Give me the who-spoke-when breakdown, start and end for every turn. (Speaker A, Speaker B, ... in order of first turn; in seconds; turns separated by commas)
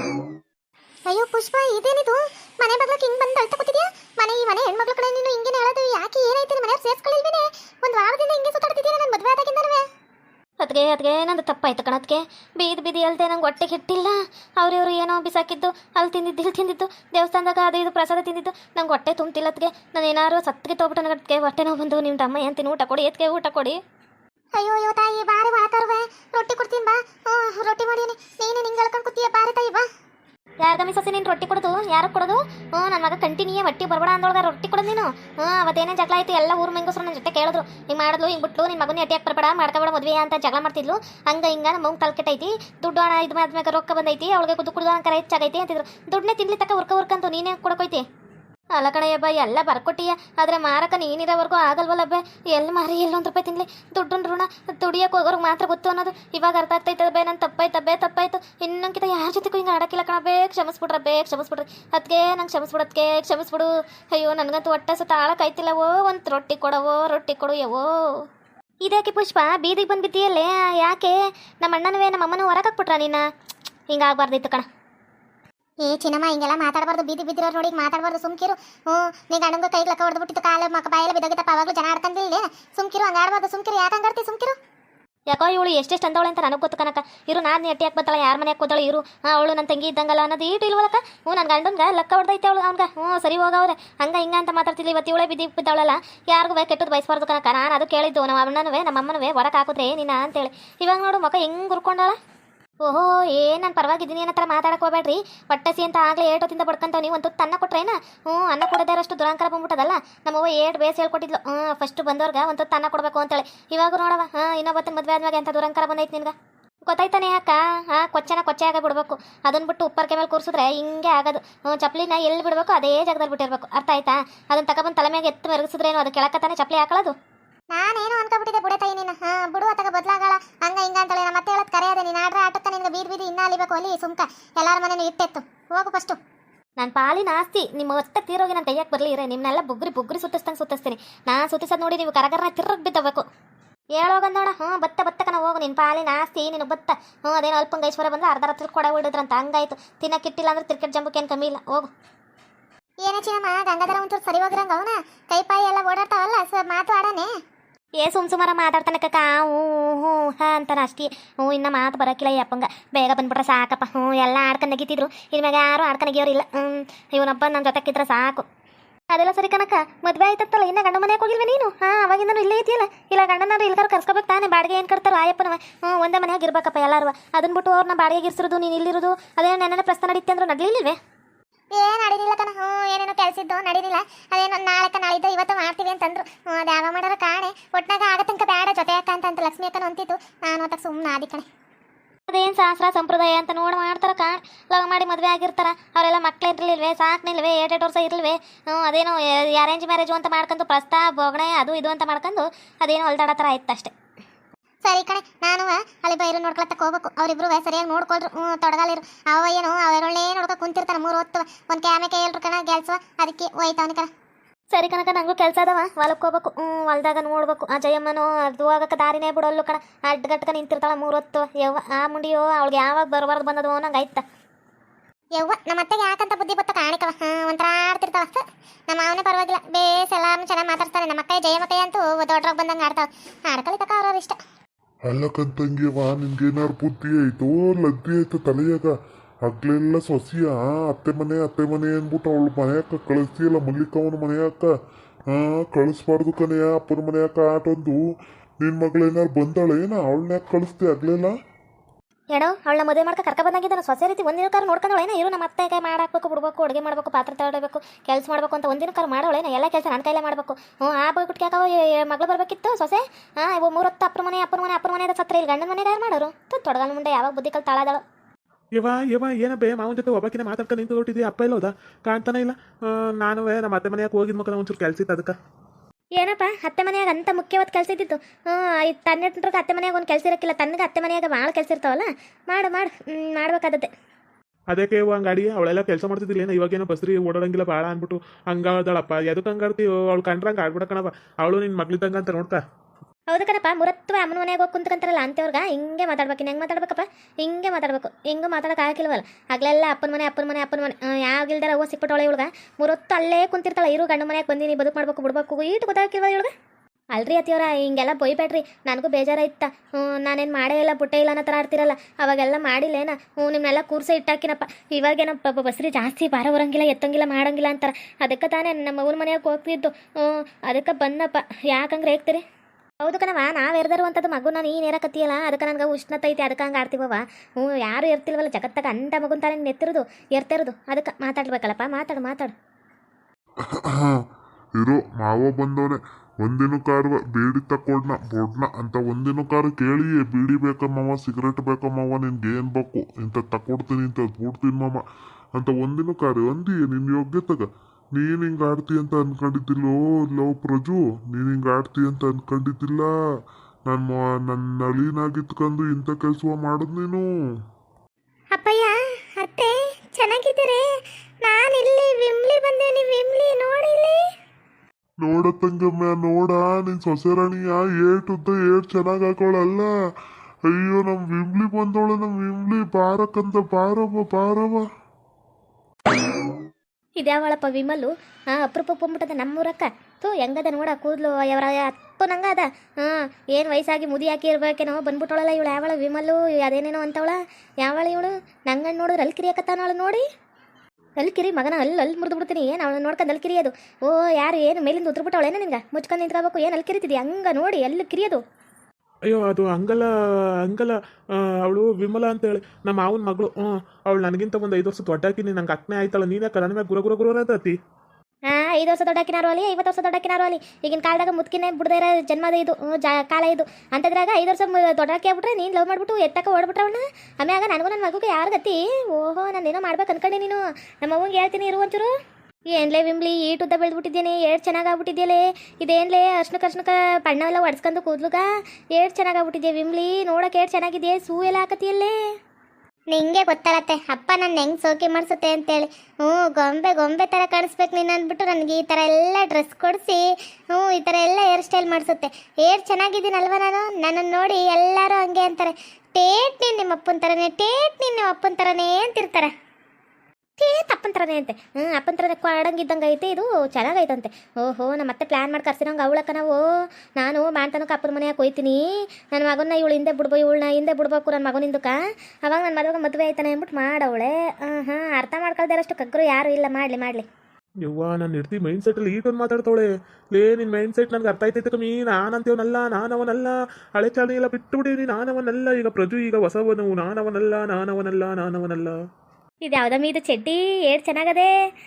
Speaker A: 1.1-9.8, Speaker B: 10.6-23.8, Speaker A: 24.5-29.8, Speaker B: 30.6-48.0, Speaker B: 48.7-67.9, Speaker B: 68.8-73.2, Speaker B: 73.9-74.7, Speaker A: 75.8-84.6, Speaker B: 85.3-102.2, Speaker B: 102.8-116.3, Speaker B: 116.8-127.1, Speaker A: 127.7-136.2, Speaker B: 136.8-143.2, Speaker B: 143.9-151.9, Speaker A: 153.0-157.3, Speaker B: 158.0-168.4, Speaker B: 169.1-181.0, Speaker A: 181.8-191.4, Speaker B: 192.3-203.9, Speaker A: 204.8-214.1, Speaker B: 214.7-224.2, Speaker A: 225.3-234.4, Speaker C: 235.1-244.7, Speaker C: 245.3-248.0, Speaker C: 248.6-251.3, Speaker B: 252.3-268.0, Speaker D: 268.8-275.4, Speaker B: 276.2-283.9, Speaker D: 284.7-292.6, Speaker B: 293.3-306.5, Speaker B: 307.1-322.4, Speaker B: 323.0-332.5, Speaker C: 333.8-334.2, Speaker C: 334.8-345.0, Speaker C: 345.6-353.1, Speaker C: 353.9-357.3, Speaker A: 358.5-360.9, Speaker A: 361.4-364.2, Speaker C: 365.2-369.9, Speaker C: 370.7-374.9, Speaker B: 377.2-390.2, Speaker B: 391.2-398.4, Speaker D: 399.2-400.1, Speaker D: 400.6-407.8, Speaker B: 408.5-422.1, Speaker B: 422.7-432.1, Speaker A: 433.1-449.5, Speaker B: 450.6-456.6, Speaker B: 457.2-467.2, Speaker D: 467.8-478.9, Speaker B: 479.6-481.5